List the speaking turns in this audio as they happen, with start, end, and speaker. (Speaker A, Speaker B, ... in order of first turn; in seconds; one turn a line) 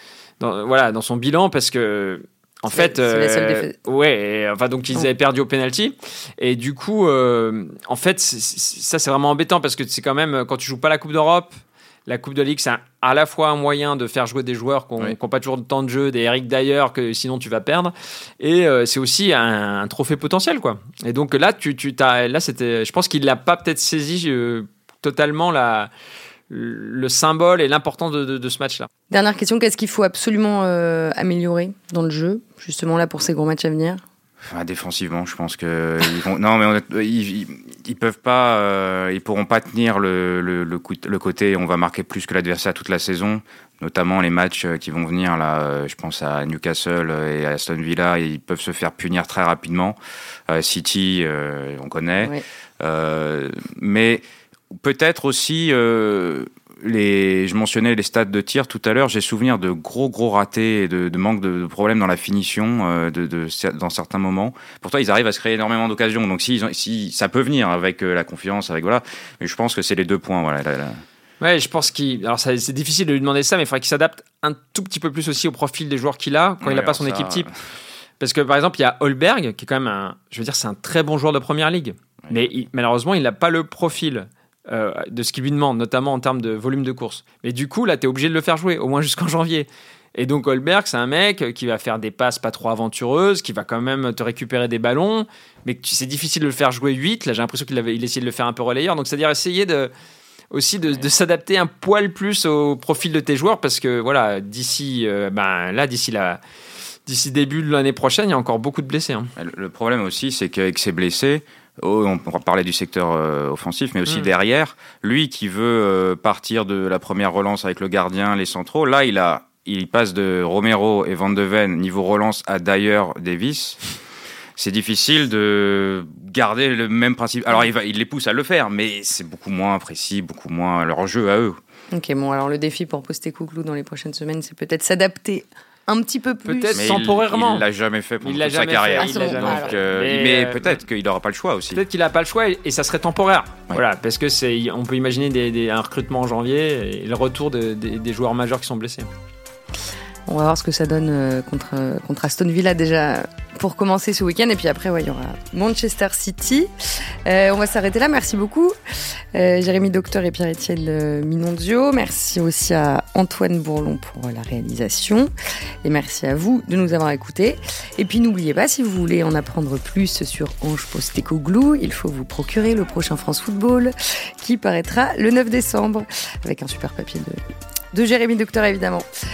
Speaker A: 0.4-11.5
Speaker B: 2.7-3.7
Speaker A: 12.1-25.9
Speaker A: 26.5-28.9
Speaker B: 29.1-34.0
Speaker C: 34.4-50.0
Speaker C: 50.5-71.0
Speaker A: 71.4-77.5
Speaker C: 76.6-77.5
Speaker A: 78.2-99.9
Speaker A: 100.5-106.4
Speaker A: 107.1-109.3
Speaker C: 109.4-123.8
Speaker C: 124.6-131.6
Speaker B: 131.9-136.9
Speaker A: 136.4-137.7
Speaker C: 136.7-141.8
Speaker A: 138.2-140.8
Speaker B: 138.9-139.8
Speaker A: 141.7-149.1
Speaker B: 150.3-158.7
Speaker B: 159.3-165.3
Speaker B: 165.8-177.4
Speaker B: 177.9-179.1